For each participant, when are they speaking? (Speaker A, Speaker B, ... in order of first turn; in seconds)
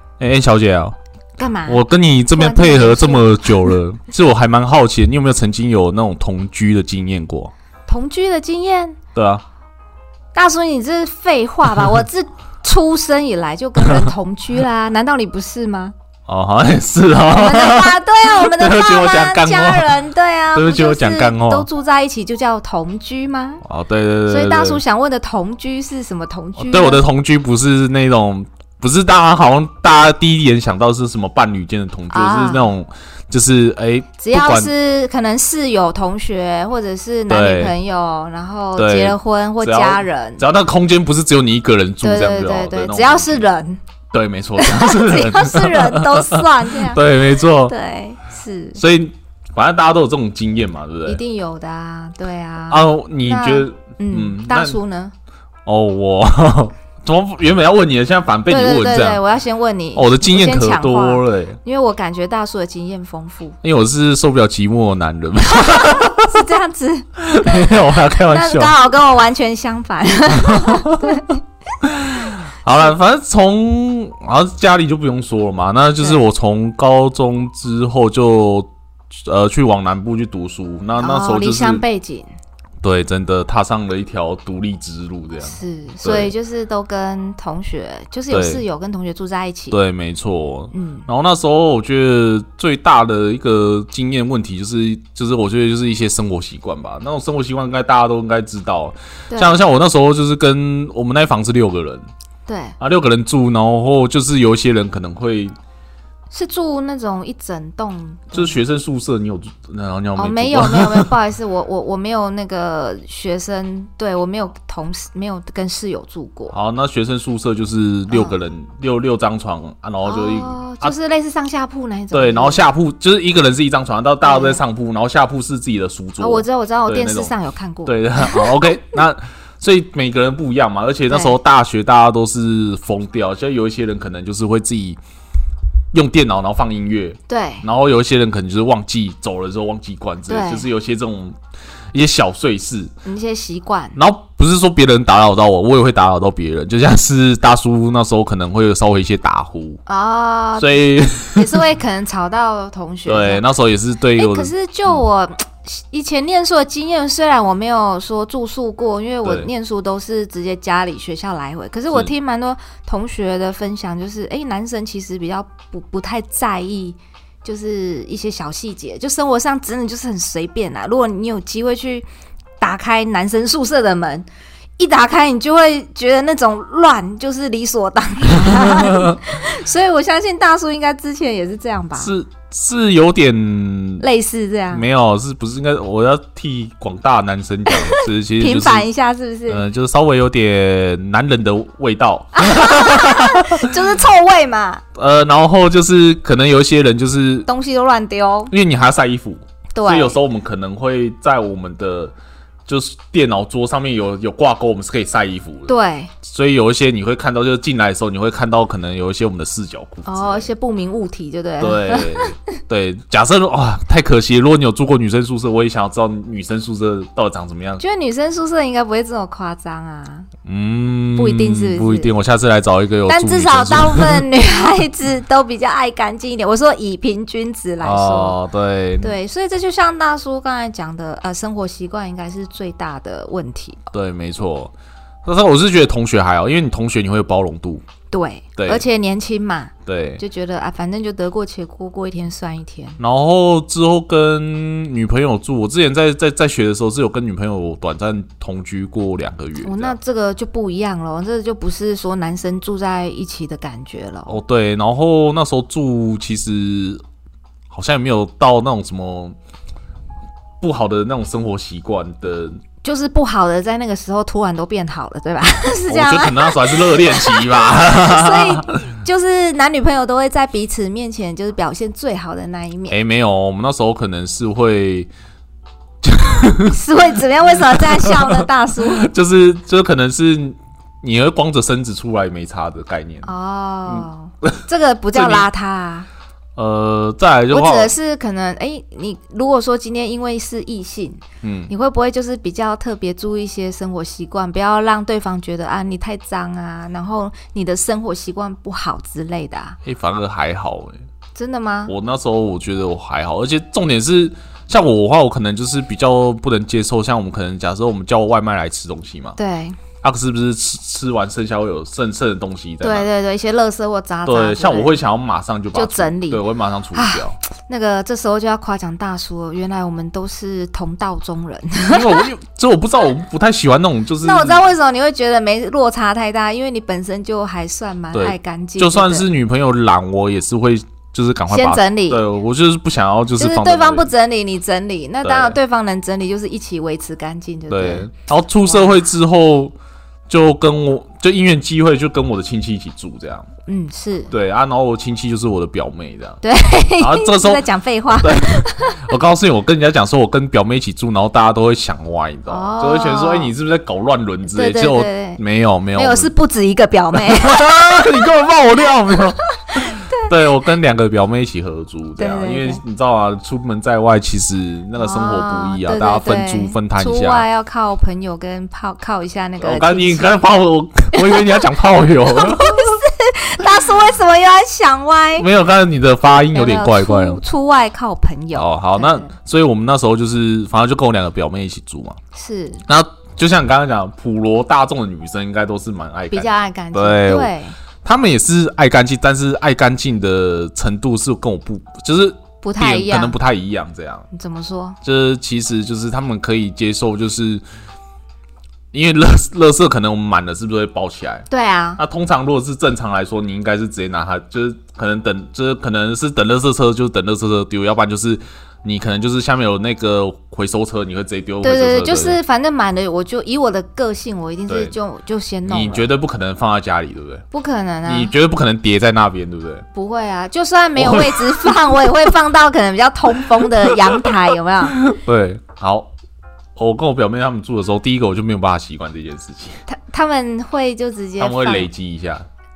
Speaker A: 0.2-0.9, 1.6-7.5, 9.1-9.4, 13.8-14.1, 16.3-20.0, 20.5-21.7, 23.6-24.8, 26.6-34.7, 37.3-37.7, 38.8-43.4, 44.1-47.7, 48.8-51.2, 52.7-54.8, 55.6-59.2, 59.9-61.6, 63.6-66.5, 67.2-68.7, 70.4-71.2, 71.8-81.8, 82.8-86.3, 88.3-88.6, 89.7-102.0, 102.8-105.5, 108.3-111.1, 116.5-120.9, 122.1-127.3, 127.8-135.0, 135.9-141.4, 141.9-142.9, 143.9-149.8, 150.6-151.6, 153.1-155.0, 178.4-179.2, 182.0-184.0, 184.7-188.9, 189.5-193.7, 194.9-197.5, 198.5-202.1, 202.7-210.5, 211.6-217.8, 220.4-224.2, 227.8-229.2, 233.9-234.7, 235.2-237.8, 238.6-238.8, 239.8-240.2, 243.0-249.9, 254.3-257.0, 257.7-259.4, 260.6-262.6, 265.9-268.7, 272.9-275.1, 276.0-276.8, 277.6-283.3, 283.9-284.6, 285.1-285.5, 286.6-287.9, 291.4-291.7, 299.8-301.0, 301.9-309.4, 310.0-313.1, 314.2-317.4, 321.8-324.6, 328.1-334.1, 335.2-335.6, 337.7-339.7, 340.3-343.5, 344.3-346.4, 347.0-356.3, 357.1-367.4, 369.6-373.0, 375.4-377.4, 378.5-382.2, 382.9-387.5, 388.0-394.2, 395.0-397.6, 398.9-401.4, 402.0-412.4, 414.7-414.9, 415.7-417.4, 418.0-419.8, 420.9-421.7, 423.6-424.3, 424.9-426.1, 426.8-429.8, 431.4-432.4
Speaker B: 1.4-1.8, 2.3-3.7, 7.9-9.0, 10.3-15.9, 17.3-23.6, 24.2-27.0, 32.1-32.7, 34.2-40.4, 42.0-43.8, 44.6-48.8, 51.0-55.1, 58.5-63.6, 65.6-71.3, 81.0-82.3, 85.4-89.8, 90.7-91.1, 99.3-99.6, 102.5-102.8, 106.3-108.5, 110.2-116.5, 118.1-118.3, 120.0-122.7, 124.2-124.6, 126.2-128.7, 131.1-131.4, 137.3-137.7, 140.3-140.7, 143.0-144.0, 149.9-153.4, 154.2-172.1, 172.6-174.2, 174.8-182.1, 184.0-184.9, 187.7-189.6, 192.3-194.8, 197.4-198.5, 199.8-200.2, 205.7-206.1, 210.0-212.3, 217.8-220.3, 221.2-222.1, 223.1-228.4, 229.0-233.8, 238.1-243.0, 249.6-254.4, 262.8-273.0, 276.7-279.1, 283.2-286.1, 287.5-299.8, 301.4-301.9, 309.4-309.8, 312.8-315.0, 315.7-322.2, 324.2-329.3, 331.5-332.2, 333.4-338.1, 338.6-339.0, 343.7-344.3, 346.4-349.1, 352.5-353.5, 354.5-355.4, 355.9-358.1, 359.8-360.3, 362.2-362.8, 364.9-370.3, 371.1-371.6, 372.3-375.5, 376.3-379.3, 382.3-382.8, 386.3-387.8, 392.6-393.4, 394.3-395.0, 401.5-402.0, 411.6-416.1, 417.5-418.3, 419.9-425.1, 429.9-431.9